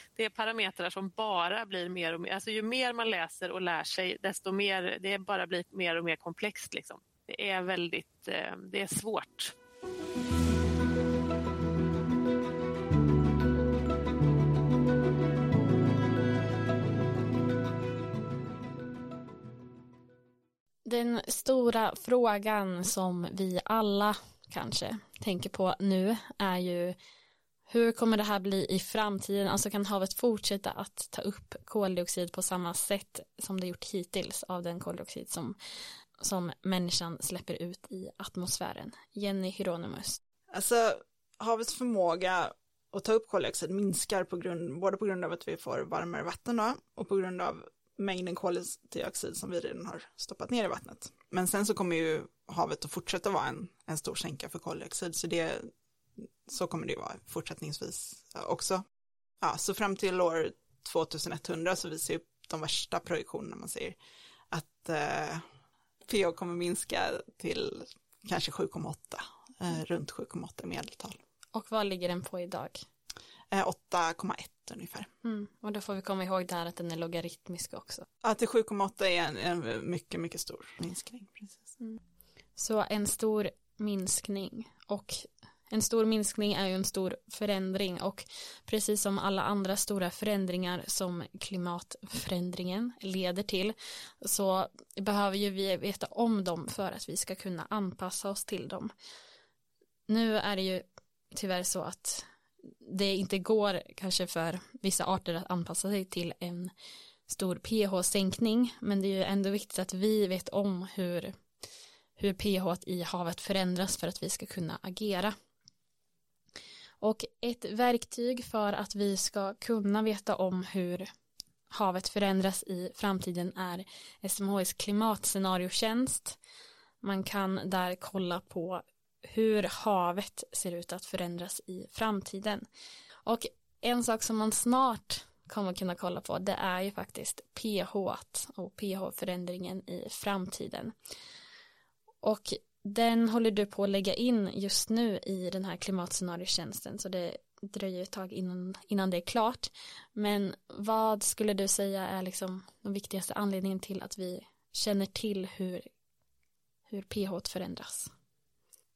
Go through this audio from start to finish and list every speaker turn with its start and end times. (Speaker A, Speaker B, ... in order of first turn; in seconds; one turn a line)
Speaker A: 0.2-9.5
Speaker B: 20.9-27.0
Speaker B: 27.7-35.6
Speaker B: 36.2-40.2
Speaker C: 40.5-58.8
Speaker C: 59.4-64.0
Speaker C: 64.5-65.5
Speaker C: 66.1-71.2
Speaker B: 71.5-72.8
Speaker C: 73.5-75.1
Speaker B: 75.2-78.1
Speaker C: 78.2-81.6
Speaker B: 82.6-98.9
Speaker B: 100.1-102.3
Speaker B: 102.8-106.7
Speaker B: 107.3-111.3
Speaker B: 112.2-115.3
Speaker B: 117.0-121.1
Speaker B: 121.7-126.4
Speaker B: 127.0-132.7
Speaker B: 133.2-140.9
Speaker B: 142.2-155.9
Speaker B: 156.9-158.1